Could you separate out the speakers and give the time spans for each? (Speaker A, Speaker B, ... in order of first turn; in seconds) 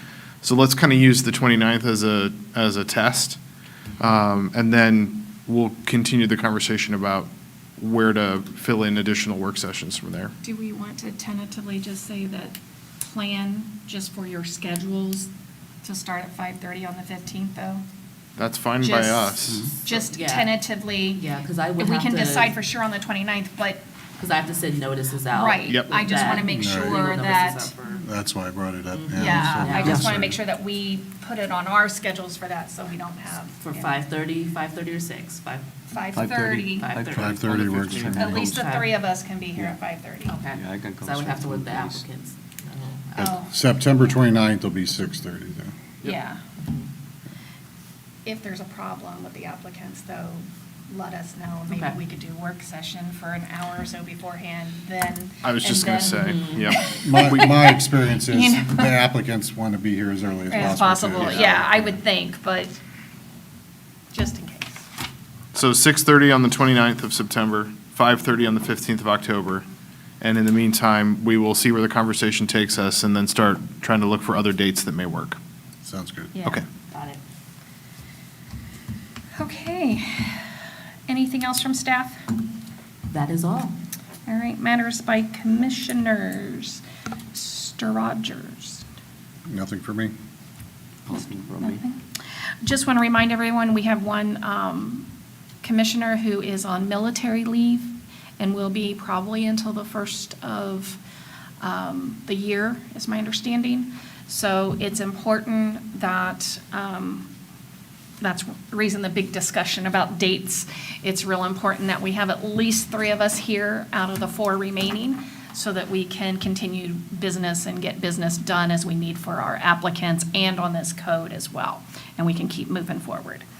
Speaker A: 0.4-3.4, 4.0-10.3, 18.4-19.8, 25.7-26.1, 55.4-57.5, 61.2-61.5, 65.5-69.7, 70.2-75.4
Speaker B: 10.4-15.3, 15.8-17.8, 18.8-23.8, 25.3-27.7, 29.1-33.9, 35.9-36.9, 38.1-40.4, 43.1-43.5, 46.0-46.4, 48.2-57.8, 58.3-58.9, 60.5-62.8, 64.1-64.8, 76.3-76.6, 79.4-80.5, 81.1-82.2, 84.3-86.8, 87.3-88.8, 91.6-92.0, 92.6-95.1, 95.6-101.0, 101.6-107.3, 108.2-123.5
Speaker C: 19.9-20.6, 21.1-22.5, 24.2-28.1, 28.9-30.3, 33.6-35.6, 36.7-39.0, 40.2-43.2, 51.7-52.0, 56.2-56.8, 76.9-77.2, 83.1-83.8
Speaker D: 26.5-27.0, 28.0-30.4, 37.1-38.5, 43.2-45.8, 57.0-62.0, 75.8-76.3, 89.5-90.1
Speaker E: 36.1-38.6, 40.5-42.0, 91.1-91.8